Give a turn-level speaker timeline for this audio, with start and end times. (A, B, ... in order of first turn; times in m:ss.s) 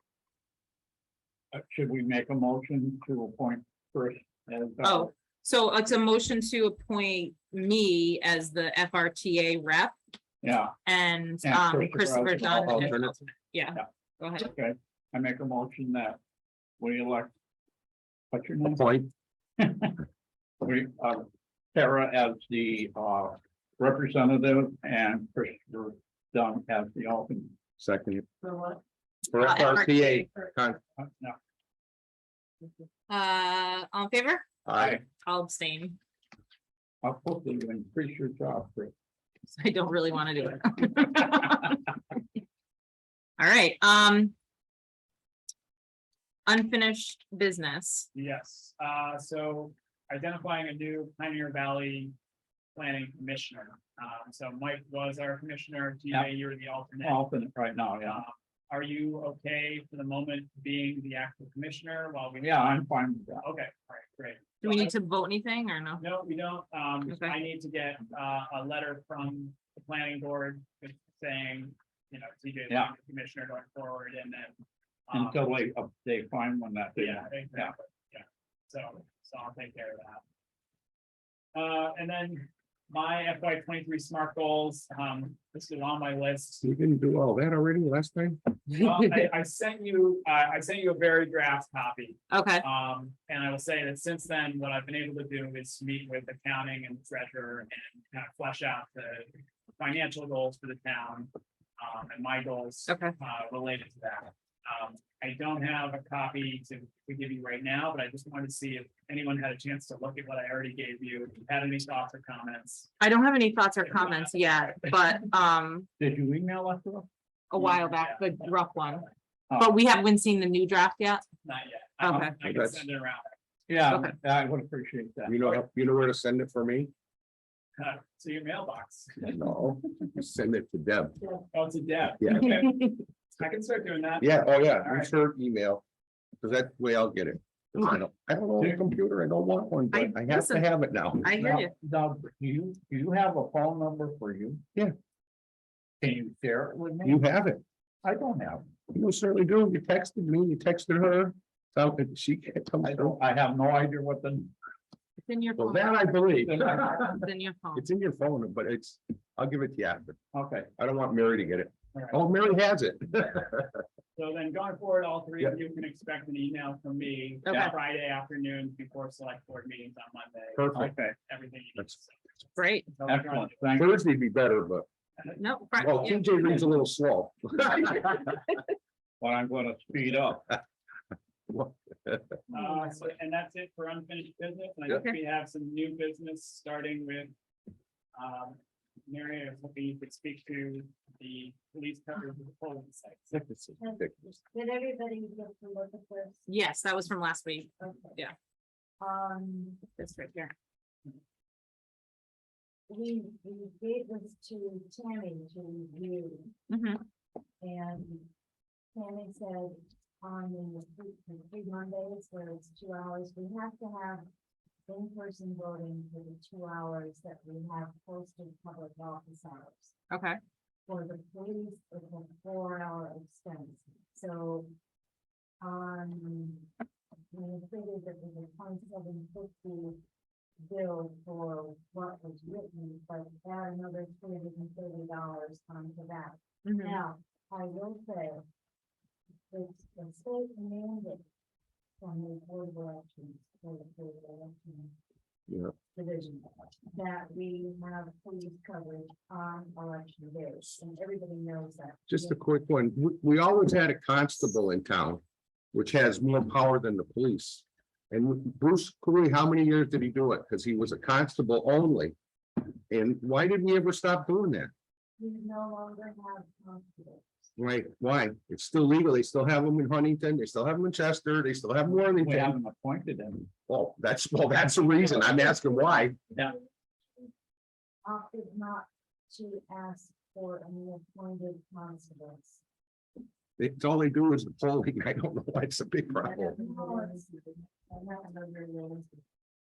0:01.5-0:05.1 A
0:04.8-0:10.0 B
0:10.4-0:10.7 A
0:10.8-0:14.5 B
0:11.4-0:13.0 A
0:12.8-0:13.1 C
0:14.4-0:16.2 A
0:16.8-0:17.3 A
0:18.3-0:18.8 A
0:18.8-0:19.1 C
0:19.6-0:20.0 A
0:20.6-0:27.5 A
0:27.8-0:28.3 C
0:29.3-0:30.8 C
0:29.4-0:30.3 B
0:31.0-0:31.4 A
0:33.1-0:34.4 B
0:34.7-0:35.0 C
0:34.8-0:35.0 A
0:35.1-0:36.0 B
0:37.0-0:38.9 A
0:39.5-0:41.7 B
0:43.4-0:44.3 B
0:46.4-0:48.1 B
0:48.1-0:52.1 D
0:52.8-0:57.2 D
0:57.0-0:58.2 A
0:58.0-1:02.8 D
1:02.4-1:03.5 A
1:03.4-1:04.9 D
1:04.6-1:06.0 B
1:06.0-1:14.6 D
1:07.1-1:07.3 B
1:12.7-1:12.9 A
1:15.1-1:15.4 D
1:15.1-1:17.7 A
1:17.0-1:20.2 D
1:21.5-1:26.7 D
1:26.6-1:28.6 C
1:28.8-1:52.9 D
1:32.3-1:32.6 B
1:42.9-1:43.1 B
1:53.0-1:55.9 B
1:53.8-1:54.9 D
1:56.0-1:57.1 A
1:57.5-1:59.0 B
1:57.6-1:59.1 D
1:59.6-2:01.2 B
2:01.4-2:03.3 D
2:02.0-2:02.3 B
2:02.4-2:02.8 C
2:03.7-2:05.6 A
2:03.9-2:04.1 B
2:05.3-2:06.9 C
2:07.8-2:09.4 D
2:09.3-2:11.2 C
2:11.5-2:12.7 D
2:12.2-2:12.6 C
2:12.3-2:12.9 B
2:13.4-2:15.1 D
2:14.2-2:15.8 C
2:16.4-2:21.4 C
2:19.9-2:20.7 B
2:21.2-2:21.7 B
2:21.4-2:24.6 A
2:26.0-2:27.2 A
2:27.0-2:27.6 C
2:28.0-2:28.6 A
2:28.9-2:33.2 C
2:32.8-2:34.5 A
2:35.2-2:36.1 B
2:35.6-2:37.2 C
2:36.4-2:36.9 A
2:37.0-2:37.8 B
2:37.8-2:40.2 C
2:40.3-2:40.7 A
2:40.8-2:43.8 C
2:41.9-2:42.2 D
2:44.2-2:52.2 D
2:47.5-2:47.8 B
2:50.6-2:50.9 C
2:50.8-2:51.2 A
2:52.6-2:52.9 B
2:52.8-2:53.7 D
2:53.0-2:53.9 A
2:53.8-2:54.9 C
2:55.4-2:56.3 B
2:55.8-2:58.4 C
2:59.2-3:00.4 A
3:01.5-3:02.4 C
3:02.5-3:07.3 D
3:04.9-3:05.2 B
3:08.1-3:13.4 D
3:13.3-3:14.4 C
3:13.8-3:16.5 E
3:16.5-3:18.3 B
3:17.8-3:18.2 E
3:19.0-3:19.9 E
3:20.0-3:20.5 B
3:22.9-3:26.5 E
3:26.7-3:27.0 B
3:27.6-3:28.3 E
3:28.9-3:34.3 E
3:34.9-3:40.0 E
3:40.1-3:40.4 B
3:40.9-3:44.7 E
3:45.6-3:46.7 E
3:47.3-3:50.0 E
3:50.6-3:58.4 E
3:56.6-3:57.0 B
3:59.5-4:01.2 E
4:02.0-4:05.0 E
4:05.5-4:05.7 C
4:05.9-4:12.4 E
4:12.1-4:15.2 C
4:15.7-4:22.1 C
4:22.9-4:24.7 C
4:25.2-4:27.5 E
4:27.6-4:32.6 C
4:32.1-4:33.5 A
4:33.6-4:36.2 C
4:38.0-4:42.6 E
4:43.6-4:46.6 C
4:46.2-4:49.2 E
4:46.6-4:46.8 B